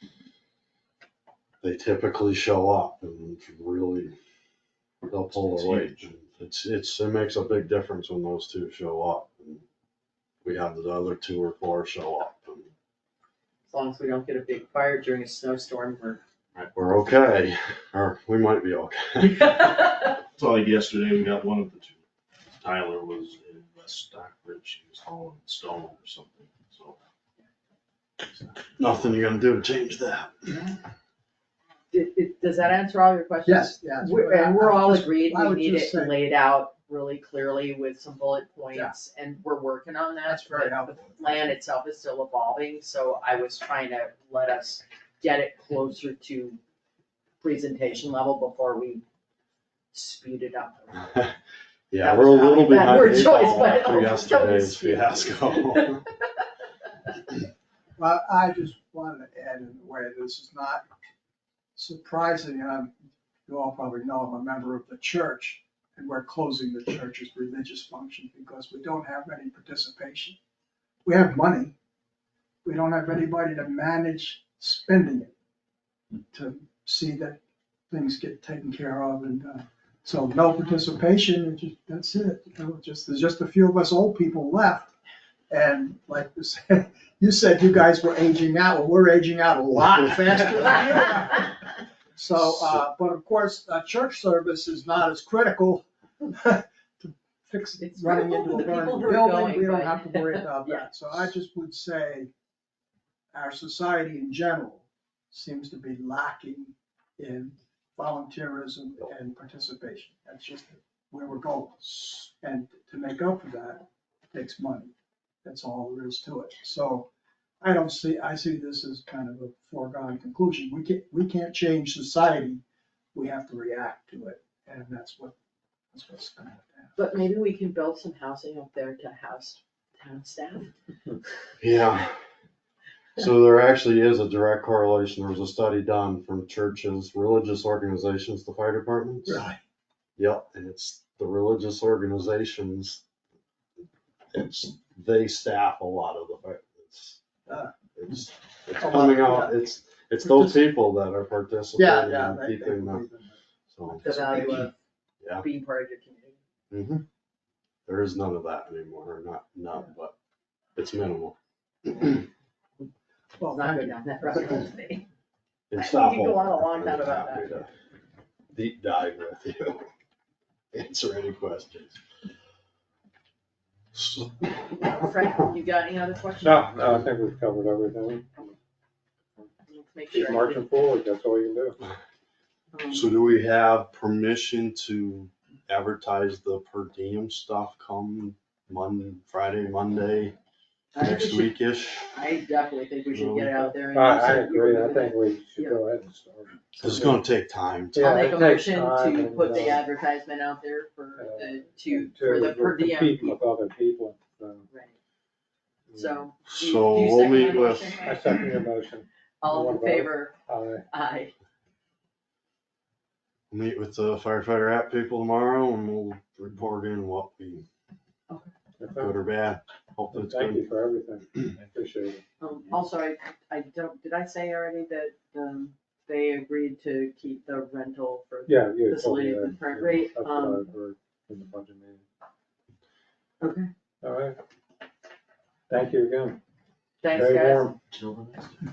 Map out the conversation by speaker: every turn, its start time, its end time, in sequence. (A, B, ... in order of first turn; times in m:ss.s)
0:01.6-0:04.2 A
0:05.0-0:09.6 A
0:05.3-0:06.0 B
0:10.4-0:12.7 A
0:13.7-0:16.2 C
0:16.6-0:19.5 A
0:20.1-0:22.0 B
0:22.6-0:27.0 B
0:28.2-0:29.2 B
0:28.8-0:30.5 A
0:30.5-0:30.7 D
0:31.9-0:46.6 C
0:33.4-0:36.2 D
0:40.2-0:41.2 D
0:47.4-0:49.0 C
0:49.9-0:51.3 C
0:51.9-0:56.0 A
0:52.0-0:56.0 C
0:58.0-1:00.8 D
1:01.7-1:02.9 D
1:03.4-1:10.4 D
1:11.0-1:11.7 D
1:12.6-1:15.3 D
1:16.3-1:17.4 D
1:17.9-1:25.0 D
1:25.5-1:31.6 D
1:32.2-1:42.3 D
1:37.8-1:41.3 C
1:43.3-1:54.9 D
1:55.4-1:57.1 D
1:57.6-2:02.6 D
2:03.1-2:05.3 D
2:05.9-2:06.9 D
2:07.0-2:10.7 C
2:11.6-2:12.1 A
2:13.2-2:19.4 A
2:19.2-2:19.6 D
2:20.2-2:23.0 A
2:24.3-2:27.2 A
2:27.5-2:27.7 D
2:28.0-2:33.0 A
2:28.8-2:29.6 D
2:30.2-2:30.6 D
2:31.8-2:34.7 D
2:33.7-2:34.5 A
2:34.0-2:34.8 C
2:35.4-2:36.4 C
2:36.7-2:37.0 A
2:37.9-2:40.1 A
2:40.8-2:42.2 A
2:43.4-2:44.6 D
2:43.5-2:45.1 C
2:45.7-2:47.7 A
2:45.8-2:47.7 C
2:48.5-2:49.9 A
2:50.7-2:52.0 A
2:53.9-2:54.9 A
2:54.7-2:56.8 C
2:56.4-2:58.3 E
2:59.7-3:00.6 C
3:00.2-3:01.8 E
3:02.7-3:03.1 C
3:02.9-3:10.3 A
3:10.9-3:11.6 C
3:11.0-3:12.1 A
3:12.1-3:15.8 C
3:13.1-3:13.7 A
3:13.9-3:17.2 E
3:16.8-3:18.2 A
3:17.9-3:23.4 C
3:18.0-3:19.7 E
3:21.3-3:24.7 E
3:24.7-3:25.0 C
3:25.9-3:28.4 C
3:26.5-3:28.1 A
3:28.1-3:30.8 E
3:29.4-3:31.3 C
3:33.5-3:37.7 A
3:38.8-3:39.2 E
3:38.9-3:40.7 A
3:40.3-3:42.2 E
3:42.4-3:50.7 C
3:48.5-3:52.0 E
3:53.4-3:53.7 C
3:54.0-3:54.4 E
3:55.7-3:56.4 E
3:57.0-3:57.8 C
3:57.2-3:57.7 E
3:58.0-3:58.5 B